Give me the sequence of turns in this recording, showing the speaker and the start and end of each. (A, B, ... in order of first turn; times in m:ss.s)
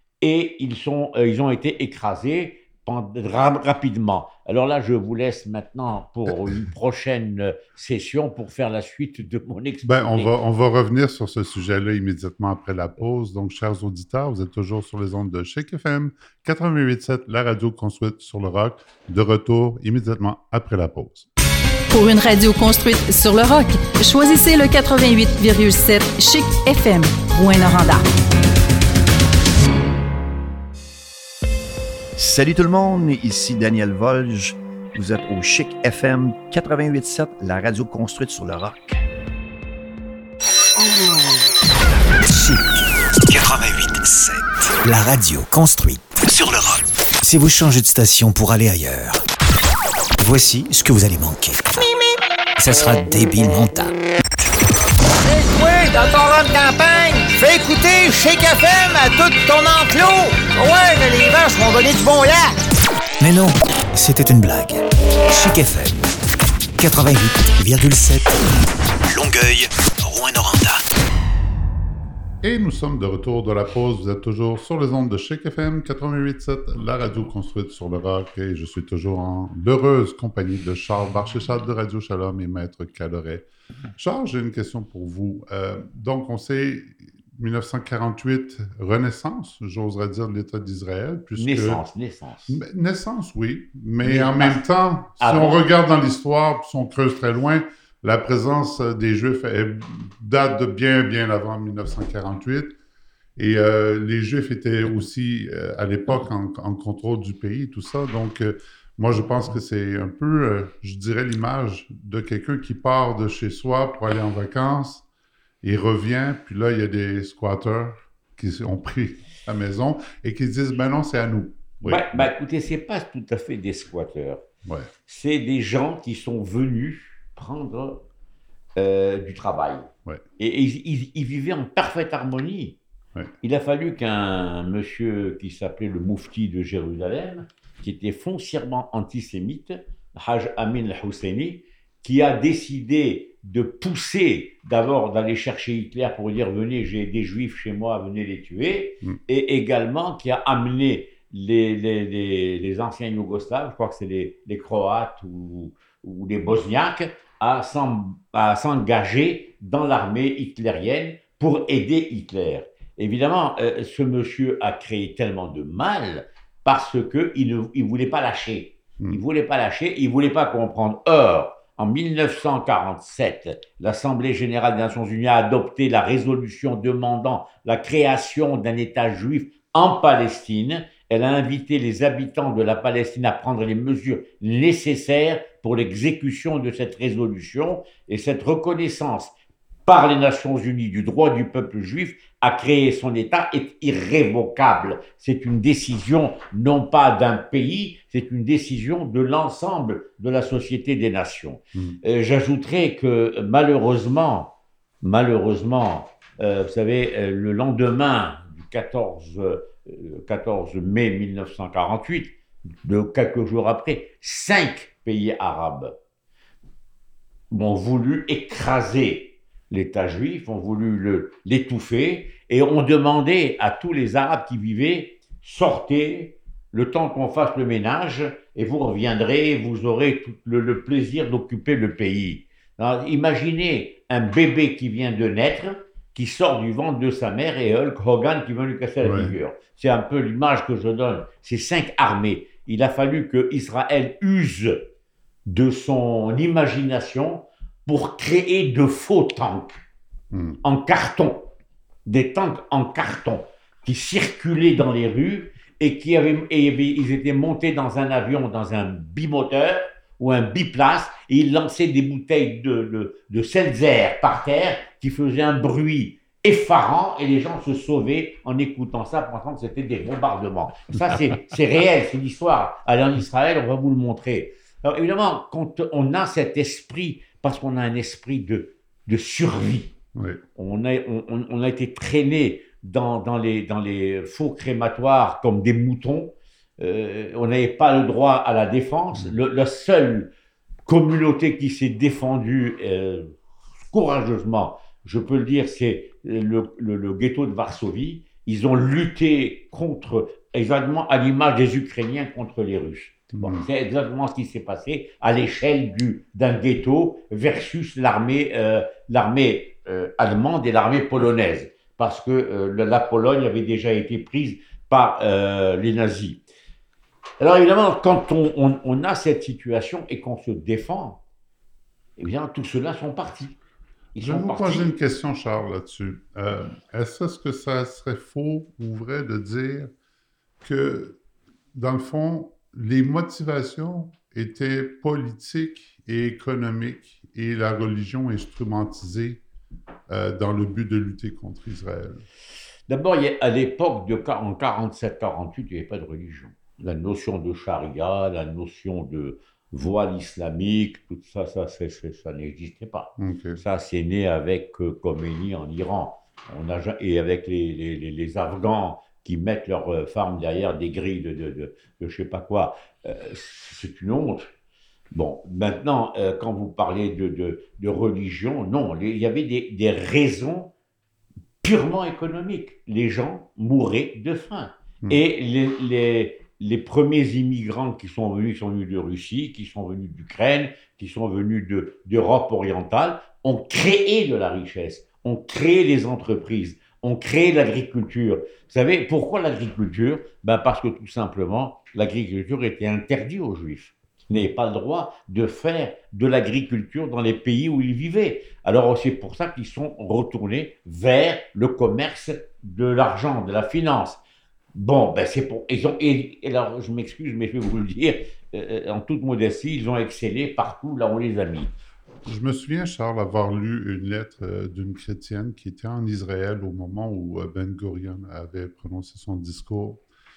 0:00.2-0:10.3 A
0:06.3-0:06.6 B
0:09.8-0:21.3 B
0:21.9-0:28.0 C
0:32.2-0:39.0 D
0:42.2-0:42.6 E
0:43.2-0:49.2 E
0:50.2-0:51.8 E
0:52.6-0:53.9 E
0:55.2-1:02.6 F
1:03.2-1:06.1 E
1:06.8-1:08.4 E
1:09.1-1:10.8 E
1:12.4-1:31.8 B
1:31.4-1:32.6 A
1:32.5-1:42.8 B
1:34.0-1:34.6 A
1:35.2-1:35.6 A
1:43.4-1:55.0 B
1:55.6-2:02.3 B
2:01.8-2:04.4 A
2:05.1-2:08.0 A
2:08.8-2:12.8 A
2:13.4-3:09.3 A
3:09.8-3:35.9 A
3:37.5-4:04.8 A
3:59.0-3:59.3 B
4:05.4-4:09.8 A
4:10.3-4:10.6 B
4:10.6-4:11.5 A
4:12.0-4:39.9 A
4:40.1-4:40.4 B
4:40.6-4:50.3 A
4:50.8-4:53.4 A
4:53.9-5:16.4 A
5:03.4-5:03.7 B
5:17.4-5:21.2 A
5:22.2-5:23.6 A
5:24.1-5:24.9 A
5:24.2-5:29.9 B
5:30.6-5:31.2 B
5:31.7-5:39.4 B
5:40.1-5:42.2 B
5:42.9-6:04.5 A
5:53.2-5:53.6 B
6:05.1-6:10.7 A
6:11.6-6:44.2 A
6:44.7-6:51.7 A
6:52.2-7:00.0 B